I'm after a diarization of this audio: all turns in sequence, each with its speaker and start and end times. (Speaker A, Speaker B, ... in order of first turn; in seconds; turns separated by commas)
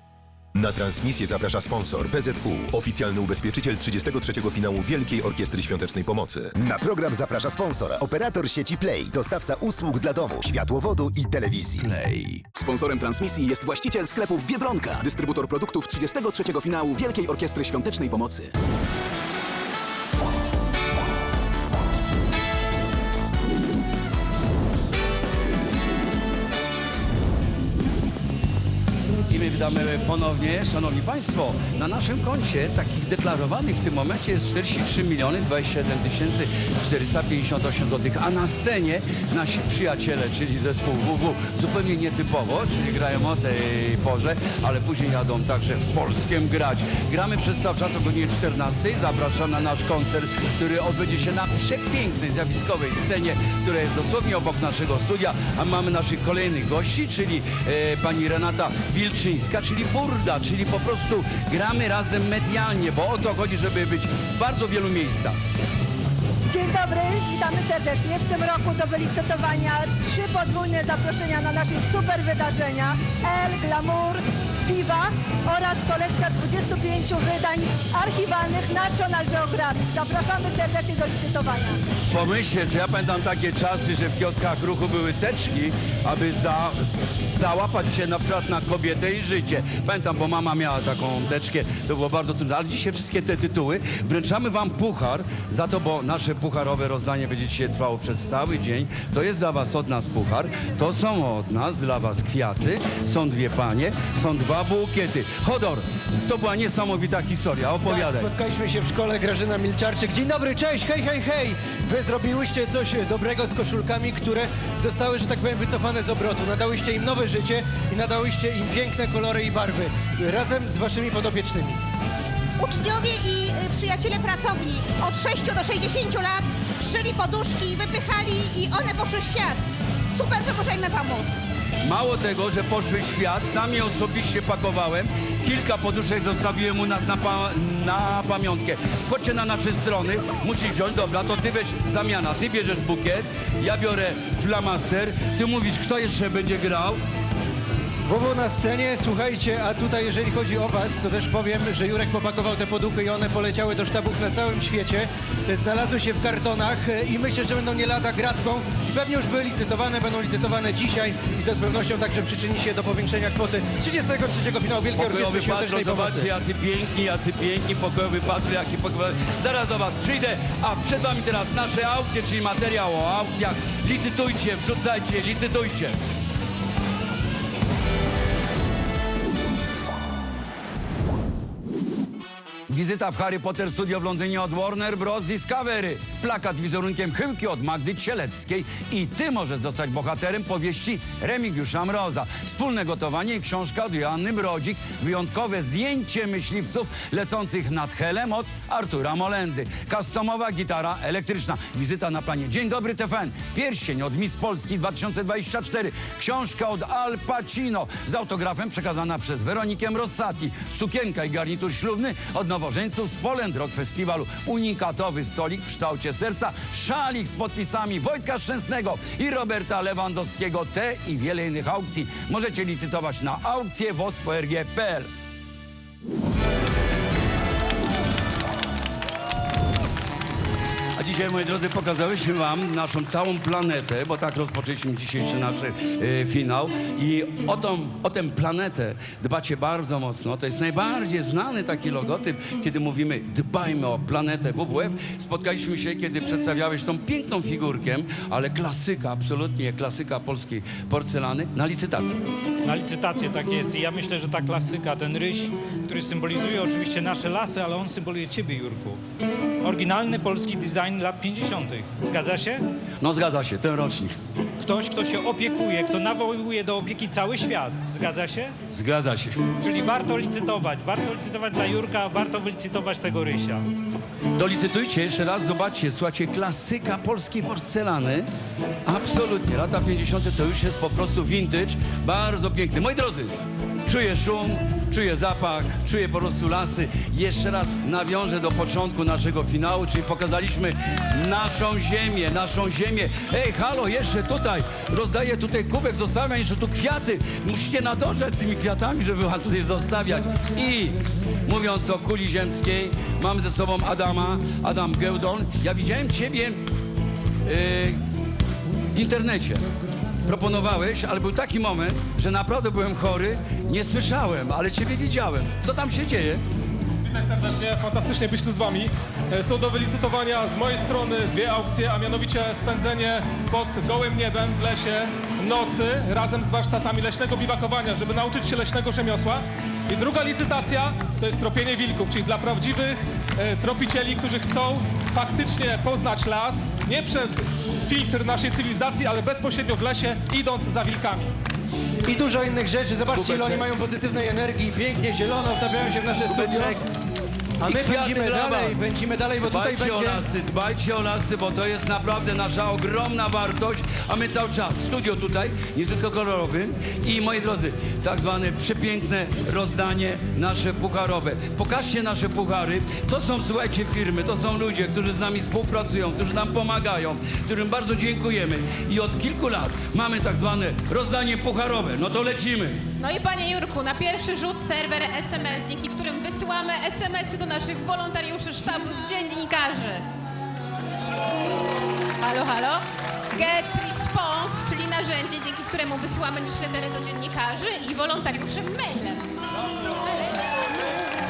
Speaker A: 0.5-6.5, Speaker B: 6.6-11.9, Speaker C: 11.8-12.4, Speaker D: 12.5-18.5, Speaker C: 29.3-65.4, Speaker E: 66.5-81.8, Speaker C: 82.1-108.3, Speaker F: 107.8-121.8, Speaker G: 122.6-131.4, Speaker C: 131.8-147.0, Speaker F: 148.1-166.3, Speaker C: 164.9-176.0, Speaker C: 182.7-225.1, Speaker C: 230.9-252.2, Speaker H: 252.6-259.0, Speaker H: 259.6-262.6, Speaker C: 263.0-264.1, Speaker H: 264.6-268.5, Speaker C: 268.7-269.4, Speaker H: 269.6-273.6, Speaker C: 274.3-278.3, Speaker C: 278.9-306.6, Speaker C: 307.4-308.0, Speaker C: 308.9-309.6, Speaker C: 310.2-316.4, Speaker I: 317.0-341.3, Speaker F: 342.1-346.8, Speaker C: 343.1-343.6, Speaker C: 346.2-346.8, Speaker F: 347.6-350.2, Speaker C: 347.6-348.8, Speaker C: 349.5-372.8, Speaker J: 373.0-380.0, Speaker J: 382.2-389.3